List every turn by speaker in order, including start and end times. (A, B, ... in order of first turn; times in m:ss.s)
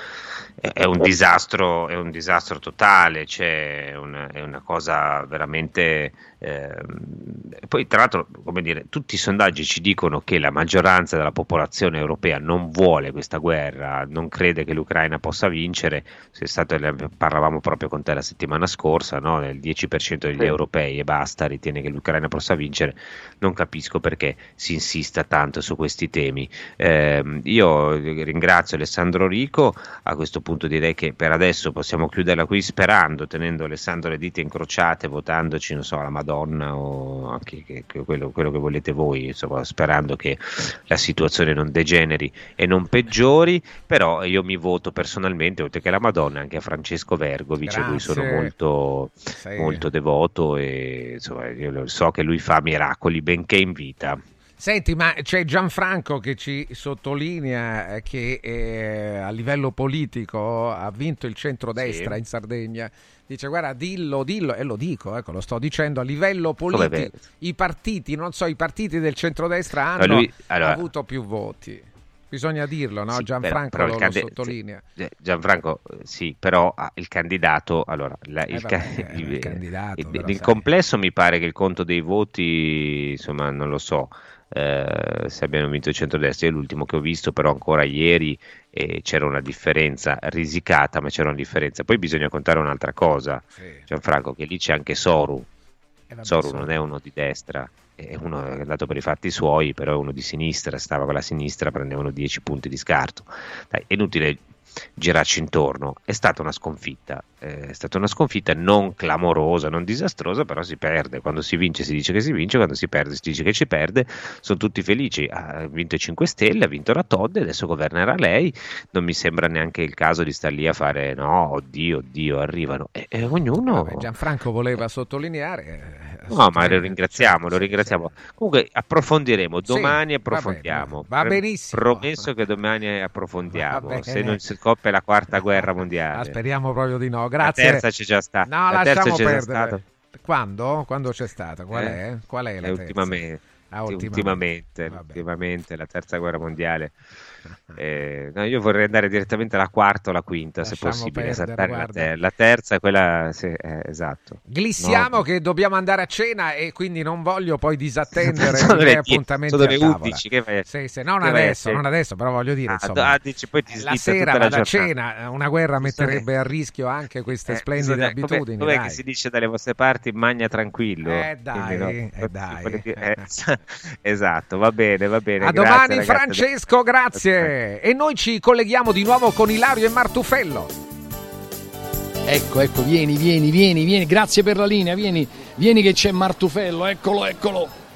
0:00.6-0:54.2 A
0:47.6-0:48.5 B
0:49.3-0:49.9 B
0:54.6-1:14.8 B
1:01.8-1:02.2 A
1:06.7-1:07.2 A
1:10.0-1:10.8 A
1:13.1-1:35.5 A
1:18.5-1:20.7 B
1:33.5-1:33.9 B
1:36.1-1:36.9 B
1:36.2-2:04.1 A
2:03.3-2:08.0 B
2:06.3-2:16.4 A
2:09.6-2:12.3 B
2:13.5-2:14.4 B
2:16.1-2:17.8 B
2:17.4-2:19.8 A
2:18.4-2:25.2 B
2:21.7-2:22.0 A
2:22.6-2:27.0 A
2:27.7-2:35.2 A
2:30.6-2:32.1 B
2:34.5-2:43.2 B
2:38.2-2:40.7 A
2:41.2-2:41.8 A
2:42.7-2:44.9 A
2:43.7-2:49.0 B
2:45.8-2:46.2 A
2:47.5-2:56.5 A
2:51.0-2:53.2 B
2:55.4-3:00.7 B
2:57.1-2:57.5 A
3:02.3-3:07.7 C